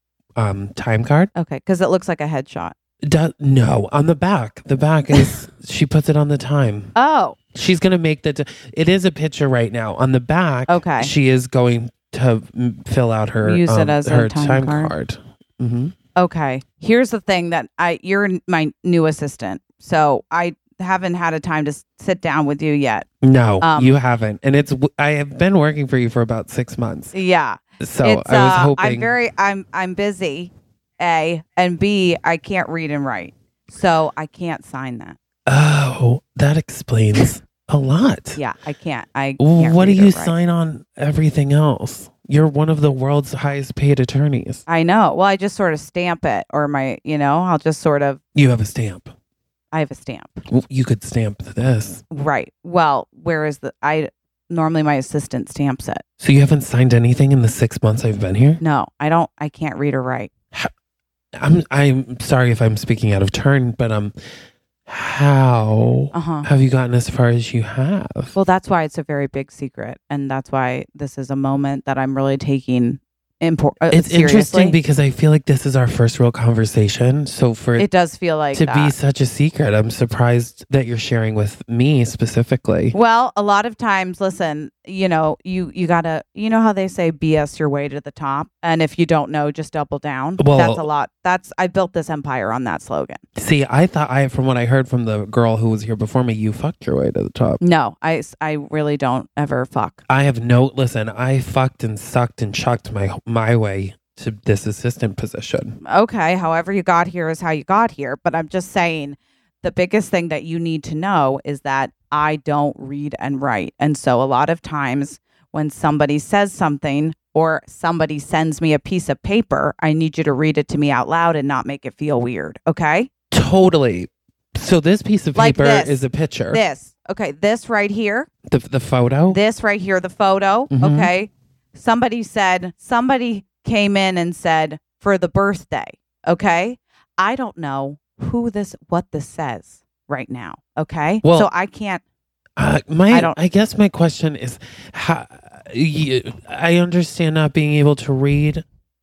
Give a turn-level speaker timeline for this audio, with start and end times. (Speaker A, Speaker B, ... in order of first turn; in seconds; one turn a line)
Speaker A: 0.3-1.3
Speaker B: 1.3-2.7
Speaker A: 3.0-6.9
Speaker B: 5.1-5.4
Speaker B: 6.9-7.4
Speaker A: 7.5-15.9
Speaker B: 10.7-11.1
Speaker B: 13.4-14.9
Speaker B: 16.1-23.1
Speaker A: 23.2-27.1
Speaker B: 23.6-23.9
Speaker B: 27.1-35.2
Speaker A: 27.8-29.1
Speaker A: 35.5-38.4
Speaker B: 38.4-40.3
Speaker A: 39.4-44.6
Speaker B: 44.7-48.2
Speaker A: 48.3-49.1
Speaker B: 49.7-50.4
Speaker A: 50.5-52.0
Speaker B: 52.1-56.0
Speaker A: 56.2-58.6
Speaker B: 58.6-60.3
Speaker A: 61.4-64.1
Speaker A: 64.8-68.3
Speaker B: 66.1-66.5
Speaker B: 68.3-74.8
Speaker A: 73.9-77.9
Speaker B: 77.8-78.9
Speaker A: 78.5-82.9
Speaker B: 82.9-93.2
Speaker A: 90.4-90.9
Speaker A: 93.3-97.6
Speaker B: 97.6-100.0
Speaker A: 100.1-105.8
Speaker B: 105.8-123.1
Speaker A: 123.3-126.6
Speaker B: 125.3-128.3
Speaker A: 128.5-129.4
Speaker B: 129.3-142.0
Speaker A: 130.7-131.1
Speaker A: 141.2-141.5
Speaker A: 142.6-148.6
Speaker B: 143.1-143.3